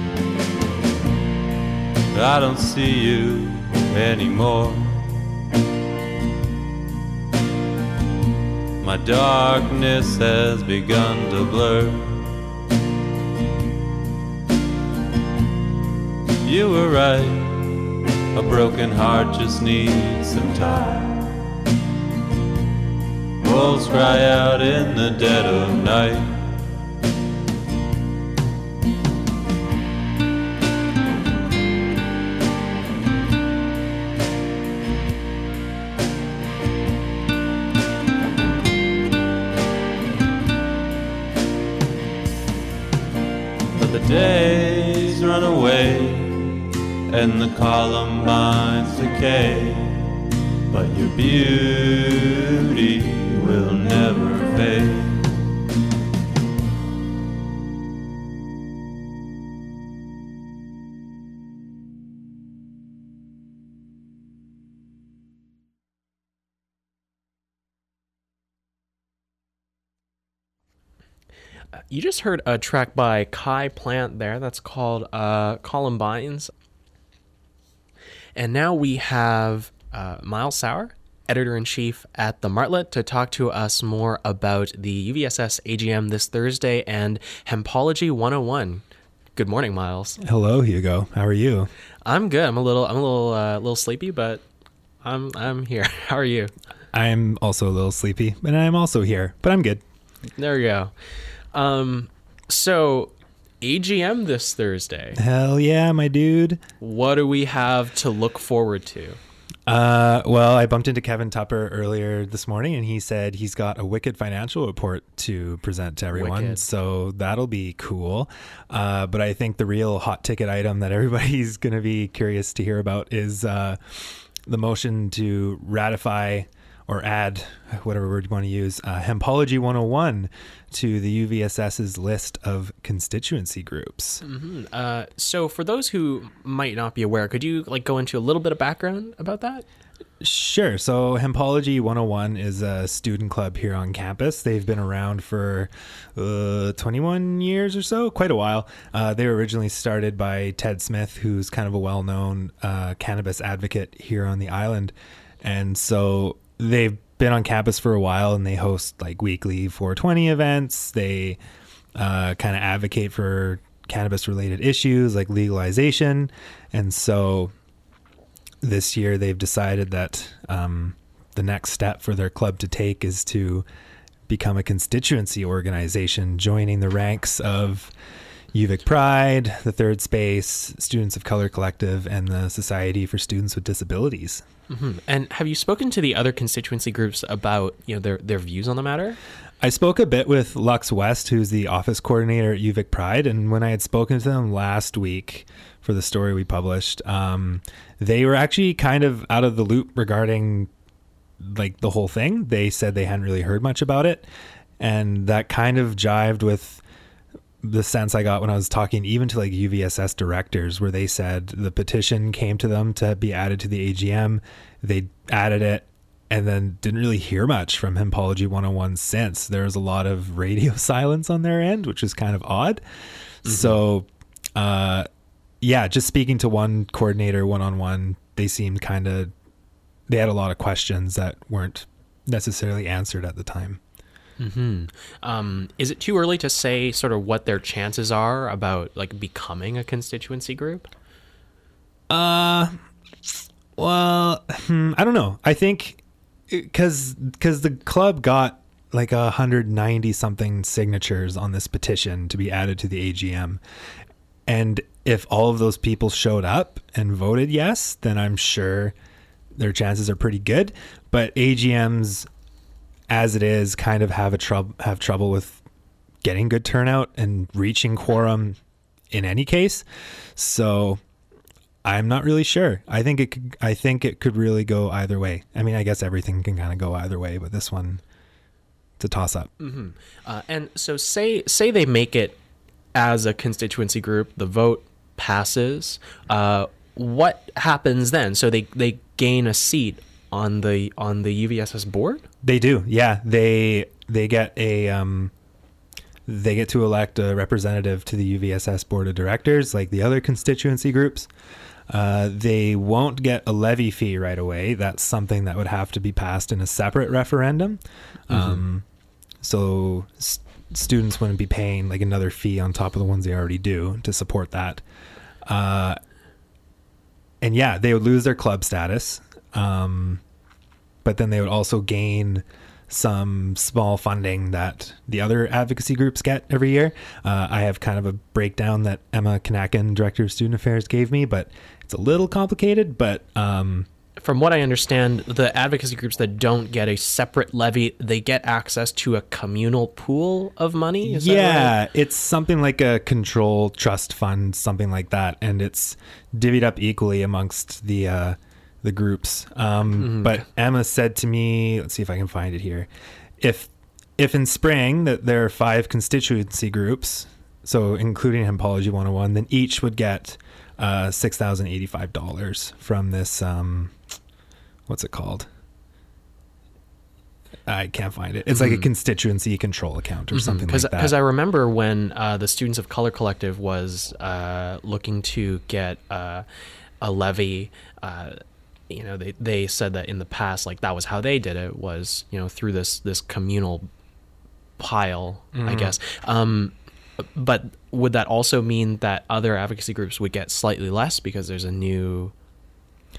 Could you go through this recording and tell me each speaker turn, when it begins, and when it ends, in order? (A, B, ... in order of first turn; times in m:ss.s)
0:02.1-0:05.0 A
0:08.8-0:12.3 A
0:16.4-0:17.7 A
0:18.3-0:21.3 A
0:23.4-0:26.5 A
0:43.7-0:46.6 A
0:47.1-0:50.1 A
0:50.7-0:55.4 A
1:11.9-1:16.5 B
1:18.4-1:28.8 B
1:29.4-1:30.2 B
1:30.2-1:31.7 C
1:32.0-1:34.4 B
1:35.0-1:36.5 B
1:36.9-1:39.8 C
1:40.4-1:40.9 B
1:41.5-1:45.2 B
1:45.2-1:46.6 C
1:46.8-1:49.2 B
1:49.7-2:14.2 C
1:56.1-1:56.7 B
2:14.2-2:19.6 B
2:20.2-2:41.4 C
2:42.0-2:47.5 C
2:48.6-2:53.6 C
2:54.3-2:57.9 C
2:58.5-3:04.4 C
3:04.7-3:09.2 B
3:09.6-3:20.7 C
3:21.4-3:24.3 C
3:24.8-3:26.8 C
3:27.6-3:42.8 C
3:43.4-3:45.1 C
3:43.4-3:43.8 B
3:45.6-3:49.3 C
3:50.1-3:53.8 C
3:54.4-4:00.9 B
4:02.1-4:02.8 C
4:03.8-4:13.6 C
4:14.5-4:18.9 C
4:19.6-4:22.3 C
4:23.1-4:25.6 C
4:26.2-4:28.6 C
4:29.1-4:31.0 C
4:31.8-4:38.0 C
4:39.0-4:39.5 C
4:39.6-4:42.4 B
4:42.9-4:52.2 B
4:52.4-4:55.3 C
4:56.3-5:01.3 C
5:01.9-5:08.8 C
5:08.3-5:08.6 B
5:09.4-5:14.8 C
5:15.4-5:16.0 C
5:17.4-5:20.2 C
5:21.0-5:33.9 C
5:34.2-5:41.8 B
5:41.0-5:52.9 C
5:49.9-5:50.4 B
5:53.4-6:03.9 C
6:04.9-6:05.5 C
6:07.7-6:11.2 C
6:08.5-6:08.9 B
6:10.3-6:16.4 B
6:17.0-6:23.9 B
6:24.8-6:32.3 B
6:25.5-6:26.0 C